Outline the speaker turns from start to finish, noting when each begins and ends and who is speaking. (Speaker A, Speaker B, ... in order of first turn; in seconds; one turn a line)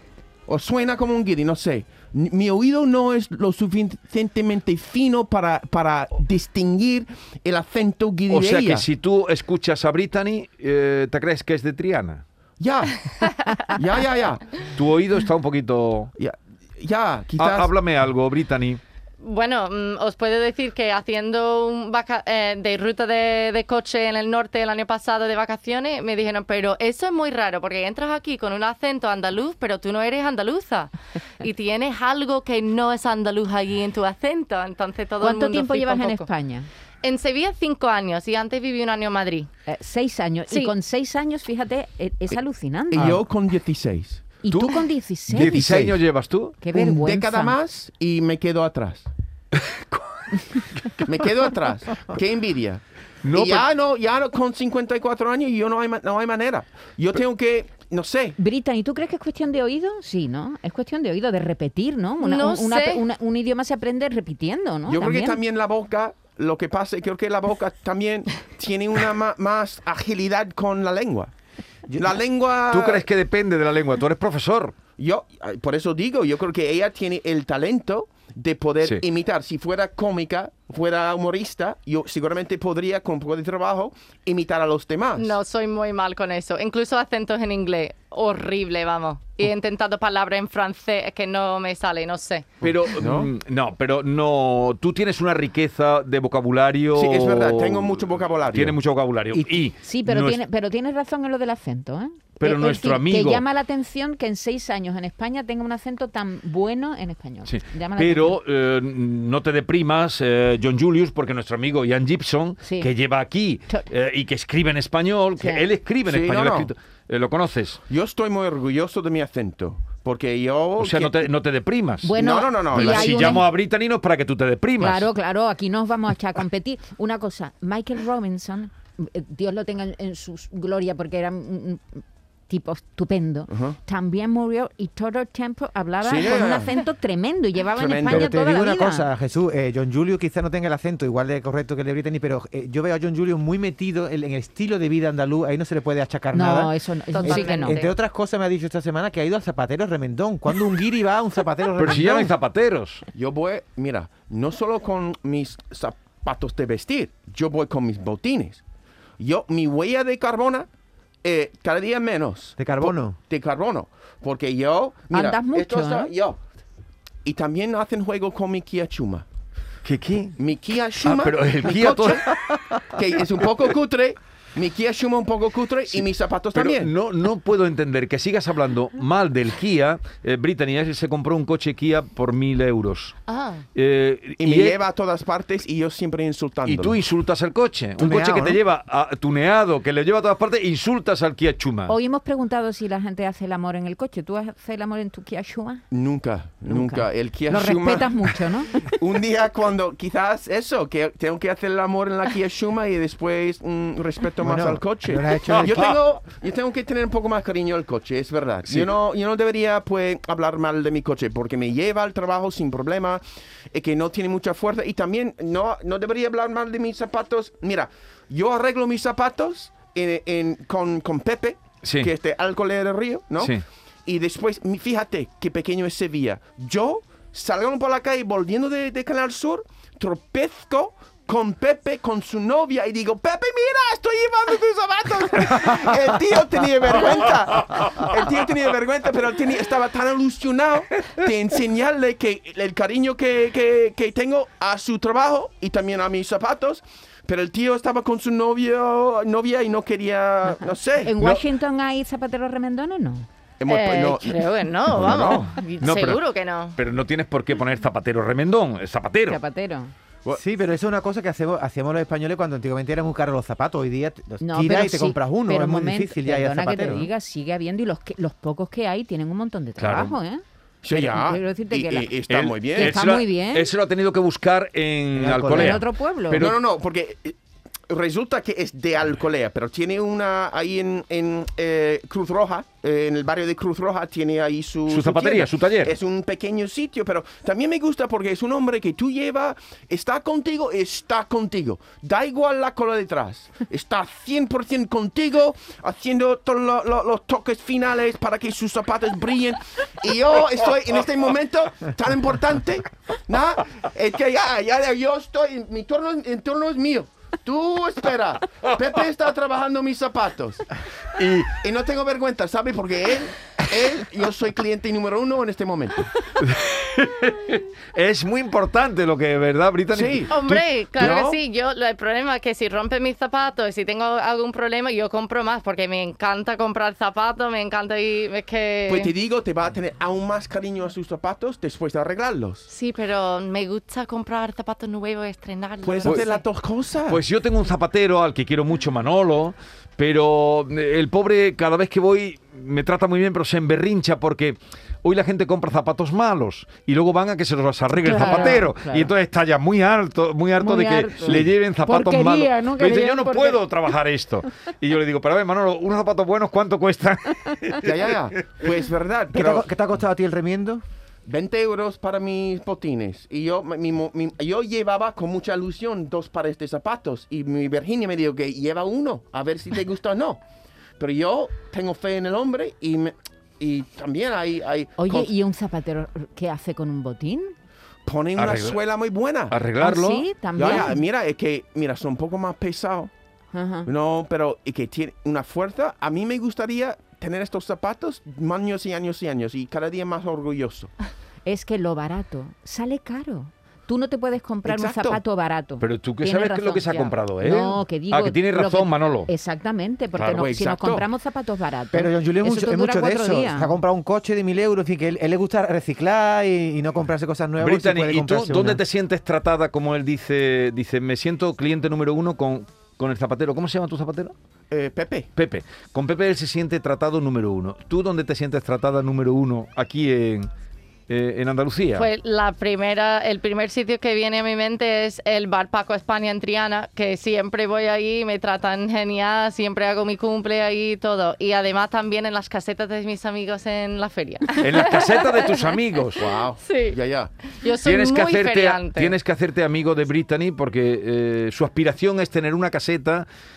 Speaker A: 0.5-8.8
Speaker B: 8.3-12.2
Speaker A: 12.6-13.0
Speaker A: 13.6-14.5
Speaker B: 14.7-16.1
Speaker A: 16.2-17.7
Speaker B: 17.4-18.8
Speaker C: 19.2-36.3
Speaker D: 35.2-36.7
Speaker C: 37.0-39.5
Speaker D: 39.6-43.1
Speaker C: 40.5-40.7
Speaker A: 42.9-44.2
Speaker D: 44.4-45.6
Speaker B: 44.5-46.5
Speaker A: 45.3-46.0
Speaker D: 46.6-47.5
Speaker A: 46.7-49.1
Speaker B: 49.7-51.0
Speaker A: 51.0-58.4
Speaker B: 53.2-53.7
Speaker D: 58.4-65.4
Speaker C: 62.2-63.0
Speaker A: 64.9-71.3
Speaker A: 71.9-73.0
Speaker B: 72.7-74.7
Speaker A: 75.0-85.3
Speaker C: 85.2-92.5
Speaker B: 92.6-100.4
Speaker A: 92.6-93.3
Speaker A: 96.9-98.8
Speaker D: 99.8-108.4
Speaker B: 102.4-103.4
Speaker B: 107.4-117.8
Speaker D: 112.6-112.9
Speaker D: 115.4-115.7
Speaker A: 116.0-116.7
Speaker A: 117.9-121.2
Speaker B: 120.8-122.1
Speaker D: 122.0-123.5
Speaker A: 122.1-123.4
Speaker B: 122.7-125.1
Speaker D: 124.8-139.1
Speaker A: 133.5-133.8
Speaker A: 136.0-136.8
Speaker A: 137.7-138.3
Speaker E: 138.0-152.3
Speaker D: 146.3-147.8
Speaker C: 147.1-147.9
Speaker B: 151.8-153.0
Speaker A: 153.1-158.6
Speaker A: 159.2-160.7
Speaker A: 161.2-166.4
Speaker E: 162.6-163.2
Speaker D: 165.1-166.1
Speaker A: 167.2-169.2
Speaker B: 169.8-170.4
Speaker A: 170.4-172.3
Speaker B: 171.0-172.4
Speaker A: 172.9-176.9
Speaker B: 175.9-183.1
Speaker C: 183.3-183.6
Speaker B: 183.7-184.8
Speaker A: 184.4-187.0
Speaker B: 186.6-191.9
Speaker E: 188.0-188.6
Speaker D: 191.9-195.8
Speaker A: 195.9-198.3
Speaker D: 196.7-198.9
Speaker A: 198.9-251.2
Speaker E: 204.4-205.9
Speaker B: 205.5-205.9
Speaker B: 221.8-222.1
Speaker D: 251.0-253.3
Speaker A: 253.6-255.5
Speaker C: 253.7-256.8
Speaker B: 255.8-256.2
Speaker B: 256.8-259.4
Speaker D: 259.3-259.9
Speaker E: 260.3-267.1
Speaker D: 264.4-272.1
Speaker B: 269.8-270.1
Speaker A: 270.8-272.9
Speaker B: 272.3-276.6
Speaker D: 272.7-273.7
Speaker E: 275.1-275.8
Speaker D: 275.5-276.4
Speaker A: 276.4-277.4
Speaker A: 277.9-310.6
Speaker B: 284.9-285.9
Speaker B: 311.2-311.5
Speaker A: 311.5-316.1
Speaker B: 316.4-321.1
Speaker A: 319.9-320.3
Speaker C: 320.3-329.1
Speaker A: 321.0-321.4
Speaker A: 328.9-332.7
Speaker C: 332.7-336.4
Speaker A: 335.8-337.2
Speaker B: 337.1-358.1
Speaker D: 348.0-349.1
Speaker D: 350.6-353.6
Speaker A: 357.8-359.7
Speaker E: 359.3-360.8
Speaker A: 361.2-370.4
Speaker A: 371.0-375.3
Speaker D: 375.0-377.5
Speaker A: 378.1-379.6
Speaker B: 378.4-378.8
Speaker B: 379.5-380.9
Speaker D: 379.8-381.0
Speaker A: 380.6-383.1
Speaker D: 383.5-383.9
Speaker A: 383.9-390.9
Speaker D: 391.4-403.8
Speaker A: 394.6-395.2
Speaker B: 395.8-399.3
Speaker A: 400.2-401.1
Speaker E: 401.9-408.8
Speaker B: 407.6-414.3
Speaker A: 414.7-415.3
Speaker B: 415.4-420.5
Speaker B: 421.1-422.1
Speaker C: 421.9-435.7
Speaker B: 434.6-436.2
Speaker A: 436.2-437.3
Speaker C: 436.6-439.1
Speaker B: 437.8-443.2